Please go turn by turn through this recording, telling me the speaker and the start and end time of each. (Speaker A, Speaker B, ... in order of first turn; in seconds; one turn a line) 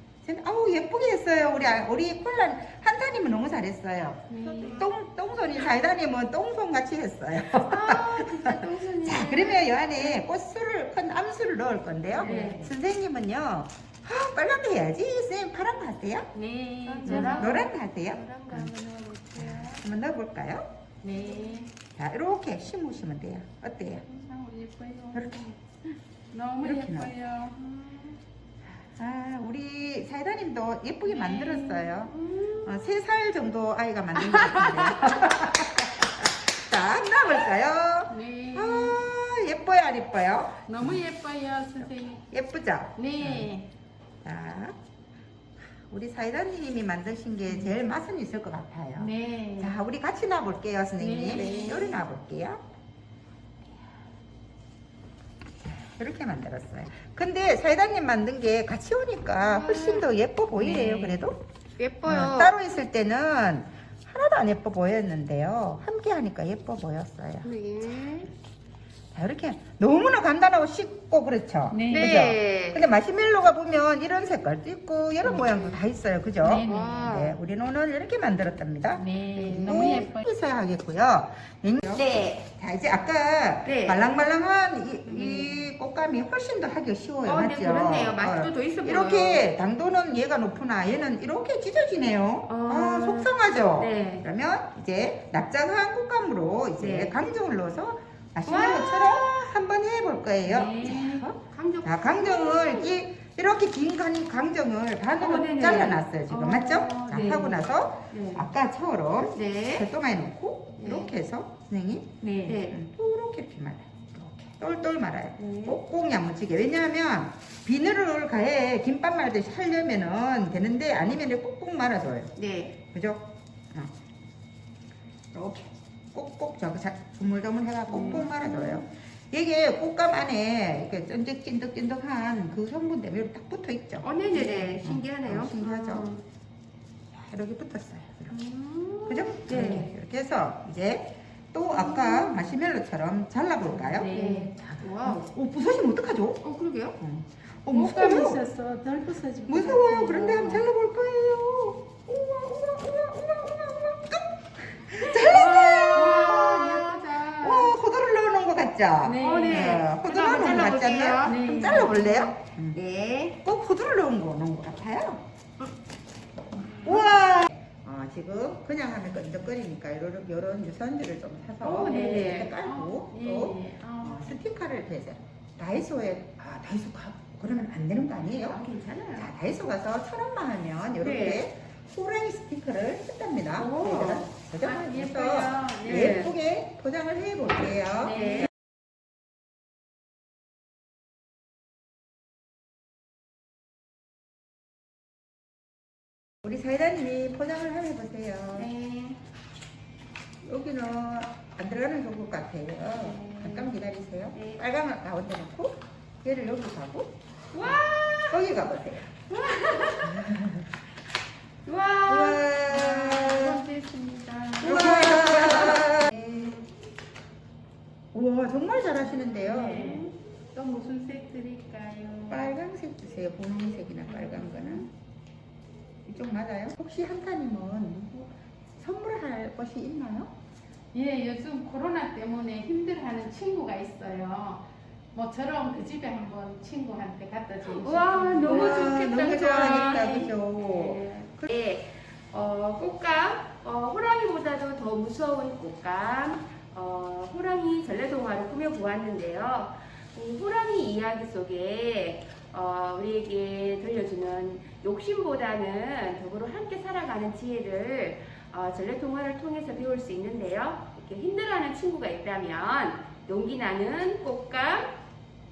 Speaker A: 0.2-16.3
Speaker B: 4.3-4.8
Speaker C: 7.8-10.2
Speaker C: 12.2-12.6
Speaker B: 12.2-12.7
Speaker B: 16.3-17.6
Speaker C: 16.9-19.8
Speaker A: 17.0-18.7
Speaker A: 19.3-20.7
Speaker B: 21.0-21.7
Speaker C: 21.1-21.6
Speaker A: 21.9-24.1
Speaker B: 24.1-25.8
Speaker A: 25.1-25.5
Speaker B: 26.3-27.6
Speaker A: 26.6-27.1
Speaker C: 27.6-28.1
Speaker A: 28.9-41.0
Speaker B: 31.1-32.1
Speaker C: 32.2-32.7
Speaker B: 34.1-35.6
Speaker B: 38.1-39.1
Speaker B: 40.7-42.2
Speaker A: 41.8-43.5
Speaker B: 43.0-43.7
Speaker A: 44.2-44.7
Speaker A: 45.9-52.6
Speaker B: 47.5-47.7
Speaker B: 49.0-49.8
Speaker B: 51.0-52.0
Speaker C: 51.4-51.8
Speaker A: 55.6-61.4
Speaker C: 59.4-60.1
Speaker B: 60.5-61.3
Speaker C: 61.8-62.5
Speaker A: 62.0-67.5
Speaker C: 67.4-68.3
Speaker A: 69.1-122.3
Speaker B: 71.7-72.2
Speaker C: 71.9-72.9
Speaker B: 76.4-77.2
Speaker C: 76.5-77.4
Speaker B: 78.9-80.2
Speaker C: 79.4-79.8
Speaker C: 81.9-82.5
Speaker C: 83.6-84.0
Speaker C: 85.0-85.5
Speaker C: 87.2-89.4
Speaker C: 92.5-94.2
Speaker C: 96.8-97.1
Speaker C: 98.5-99.3
Speaker B: 100.4-101.3
Speaker C: 101.5-102.9
Speaker C: 105.2-108.5
Speaker C: 109.3-109.9
Speaker C: 110.8-111.1
Speaker B: 112.2-112.6
Speaker C: 112.4-112.8
Speaker C: 115.4-115.8
Speaker C: 122.3-122.8
Speaker A: 122.9-123.9
Speaker A: 125.3-136.1
Speaker C: 127.9-128.8
Speaker C: 134.0-136.2
Speaker A: 137.1-138.5
Speaker C: 138.3-139.9
Speaker A: 139.1-146.4
Speaker C: 141.9-142.4
Speaker B: 143.8-144.5
Speaker C: 144.1-145.2
Speaker C: 146.4-146.9
Speaker A: 147.0-148.4
Speaker B: 147.7-150.7
Speaker A: 149.5-162.8
Speaker C: 155.0-157.3
Speaker B: 155.8-157.8
Speaker B: 159.0-159.9
Speaker C: 159.2-161.4
Speaker B: 161.2-162.3
Speaker C: 162.7-163.4
Speaker A: 163.4-165.2
Speaker A: 166.6-188.5
Speaker C: 171.6-172.5
Speaker B: 171.6-174.3
Speaker C: 178.4-179.3
Speaker C: 181.0-181.4
Speaker C: 183.6-184.3
Speaker B: 184.6-186.3
Speaker C: 185.9-186.3
Speaker C: 188.0-188.5
Speaker B: 188.1-188.5
Speaker A: 196.4-198.7
Speaker C: 198.6-199.2
Speaker A: 200.4-207.8
Speaker C: 203.0-203.7
Speaker C: 204.3-204.6
Speaker C: 207.5-208.4
Speaker A: 208.3-209.1
Speaker C: 209.3-210.1
Speaker A: 210.0-210.7
Speaker C: 211.6-215.9
Speaker A: 212.1-213.6
Speaker A: 214.6-216.6
Speaker B: 214.7-216.0
Speaker A: 218.1-220.0
Speaker B: 219.5-222.5
Speaker C: 219.5-220.1
Speaker A: 222.3-224.9
Speaker B: 224.1-224.9
Speaker A: 226.1-230.3
Speaker B: 230.9-240.1
Speaker C: 237.6-264.9
Speaker A: 238.4-241.5